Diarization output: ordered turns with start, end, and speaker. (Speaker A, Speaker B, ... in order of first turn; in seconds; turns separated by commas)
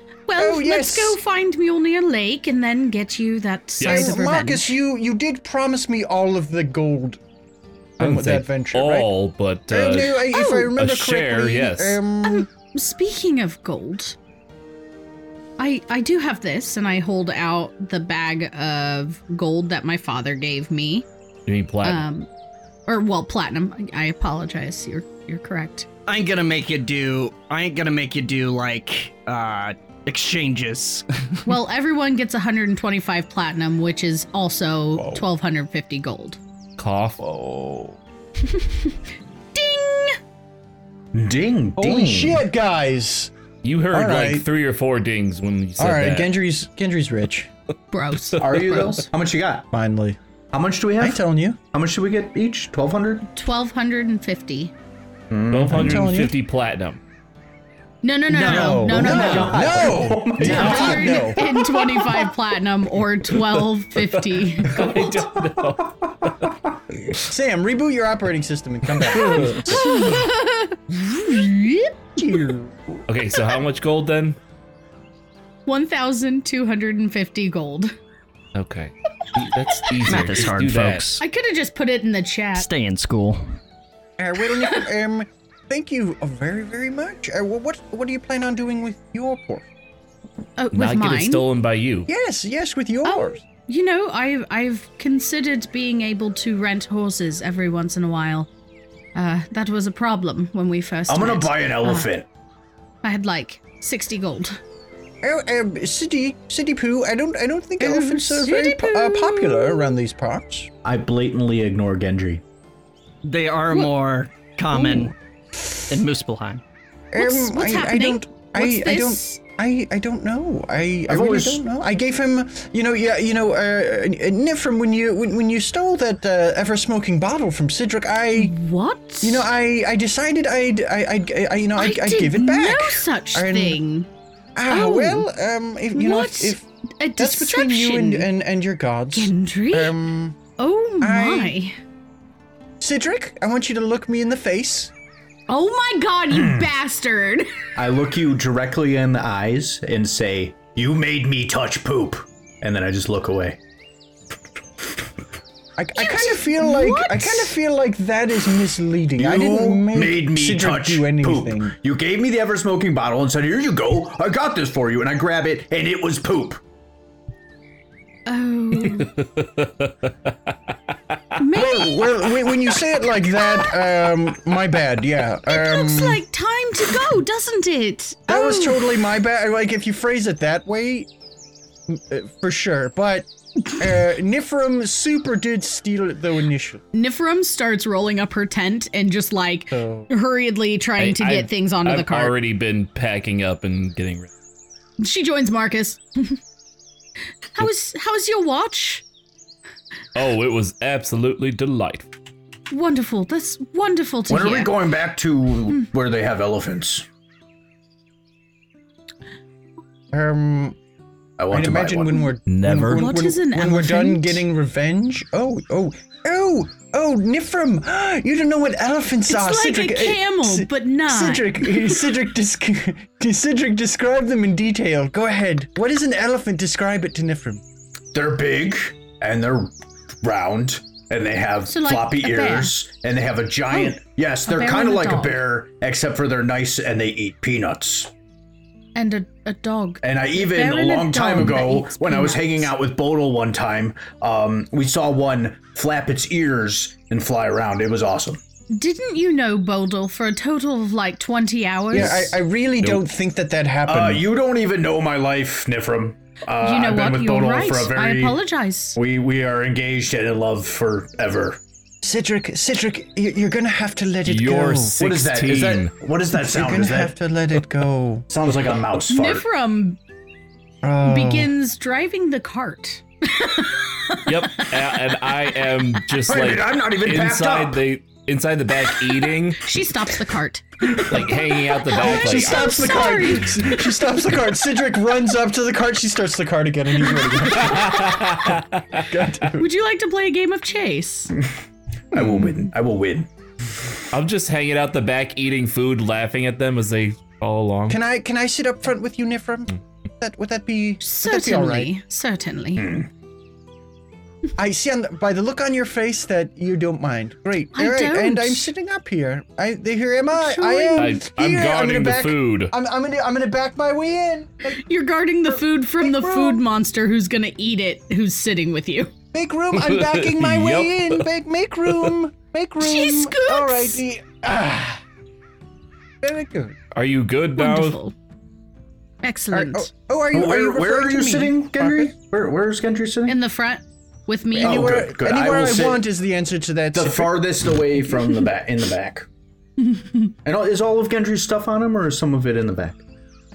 Speaker A: 0.3-4.8, Speaker B: 0.4-1.2, Speaker C: 3.8-4.2, Speaker B: 3.8-7.2, Speaker B: 8.0-9.1, Speaker C: 8.0-12.0, Speaker B: 9.7-12.5, Speaker A: 10.3-10.7, Speaker A: 12.2-14.2, Speaker A: 15.6-21.1, Speaker C: 21.5-22.1, Speaker A: 21.8-22.3, Speaker A: 22.9-25.9, Speaker D: 26.1-31.5, Speaker A: 31.5-36.4, Speaker B: 35.0-35.2, Speaker C: 36.8-37.2, Speaker B: 37.2-38.0, Speaker A: 38.4-39.0, Speaker A: 39.5-40.2, Speaker E: 41.1-42.4, Speaker B: 41.8-43.3, Speaker C: 43.6-46.4, Speaker B: 43.9-44.5, Speaker B: 45.8-47.5, Speaker A: 47.9-49.0, Speaker E: 48.4-49.7, Speaker B: 49.7-50.2, Speaker E: 50.5-53.3, Speaker B: 51.0-51.6, Speaker A: 53.4-54.7, Speaker E: 55.3-56.1, Speaker C: 55.5-57.0, Speaker B: 55.7-56.4, Speaker A: 58.0-59.9, Speaker D: 58.3-59.0, Speaker B: 58.4-61.6, Speaker E: 58.9-61.4, Speaker A: 60.4-64.8, Speaker C: 64.0-66.5, Speaker E: 64.8-66.5, Speaker B: 67.3-69.8, Speaker C: 69.1-70.2, Speaker A: 69.2-72.0, Speaker B: 72.2-72.7, Speaker C: 73.1-74.4, Speaker A: 75.7-78.0, Speaker C: 78.5-81.1, Speaker D: 80.0-81.2, Speaker A: 81.2-82.7, Speaker D: 82.5-83.6, Speaker B: 84.2-89.7, Speaker A: 90.6-91.5, Speaker C: 90.7-92.1, Speaker B: 92.1-93.4, Speaker A: 93.0-98.5, Speaker A: 99.2-102.1, Speaker E: 101.1-102.3, Speaker A: 103.0-104.6, Speaker B: 105.2-110.7, Speaker A: 107.8-110.0, Speaker E: 110.8-112.4, Speaker D: 113.2-115.1, Speaker B: 114.7-115.7, Speaker D: 115.9-116.6, Speaker B: 117.1-128.6, Speaker A: 117.2-119.4, Speaker E: 121.1-121.6, Speaker A: 128.4-129.5, Speaker B: 129.2-133.8, Speaker A: 131.8-134.1, Speaker B: 134.6-136.7, Speaker A: 134.7-135.3, Speaker A: 135.9-138.3, Speaker B: 137.2-140.4, Speaker A: 139.2-140.0, Speaker A: 140.6-141.8, Speaker B: 141.0-141.6, Speaker B: 142.8-144.9, Speaker A: 145.5-147.5, Speaker E: 147.8-153.6, Speaker B: 155.8-161.8, Speaker A: 156.0-157.5, Speaker E: 159.2-166.6, Speaker A: 168.3-169.1, Speaker C: 168.8-170.1, Speaker A: 171.4-172.2, Speaker B: 171.5-176.2, Speaker A: 175.5-178.8, Speaker B: 178.3-181.1, Speaker B: 181.9-186.8, Speaker A: 186.9-192.3, Speaker B: 189.7-190.1, Speaker C: 191.0-194.3, Speaker A: 195.0-196.4, Speaker A: 197.6-199.1, Speaker C: 200.2-202.1, Speaker A: 202.7-204.8, Speaker E: 204.3-207.1, Speaker B: 210.1-210.8, Speaker E: 211.4-212.3, Speaker B: 211.5-227.6, Speaker C: 212.5-213.1, Speaker A: 212.9-214.4, Speaker A: 219.3-222.0, Speaker E: 228.1-238.1, Speaker A: 231.7-232.7, Speaker A: 233.7-235.4, Speaker A: 238.9-242.7, Speaker E: 240.0-248.4, Speaker A: 248.7-252.3, Speaker B: 251.9-254.2, Speaker E: 251.9-252.2, Speaker E: 253.9-258.4, Speaker A: 256.6-259.0, Speaker E: 259.0-261.6, Speaker B: 262.0-264.9, Speaker C: 264.2-265.9, Speaker E: 265.0-267.1, Speaker B: 266.3-268.3, Speaker E: 268.3-269.4, Speaker A: 269.1-270.0, Speaker B: 270.8-271.5, Speaker A: 271.0-274.8, Speaker C: 274.3-279.6, Speaker E: 276.3-277.8, Speaker A: 279.6-283.7, Speaker C: 281.1-283.6, Speaker B: 282.0-289.7, Speaker C: 287.5-289.1, Speaker A: 289.6-291.3, Speaker E: 292.1-293.3, Speaker B: 292.1-292.7, Speaker C: 294.1-298.0, Speaker B: 297.9-301.9, Speaker A: 301.0-302.9, Speaker E: 302.8-303.1, Speaker B: 304.6-314.8, Speaker A: 307.8-308.7, Speaker A: 310.3-311.2, Speaker C: 311.0-312.7, Speaker A: 314.8-319.1, Speaker B: 315.5-316.6, Speaker B: 319.3-325.0, Speaker C: 319.7-321.2, Speaker A: 322.8-324.0, Speaker B: 326.2-326.8, Speaker C: 326.9-328.0, Speaker A: 327.6-328.1, Speaker A: 329.2-329.9, Speaker B: 329.5-332.1, Speaker E: 330.3-333.4, Speaker A: 333.3-335.0, Speaker B: 334.5-337.4, Speaker E: 334.5-336.0, Speaker E: 336.9-339.3, Speaker E: 340.4-343.0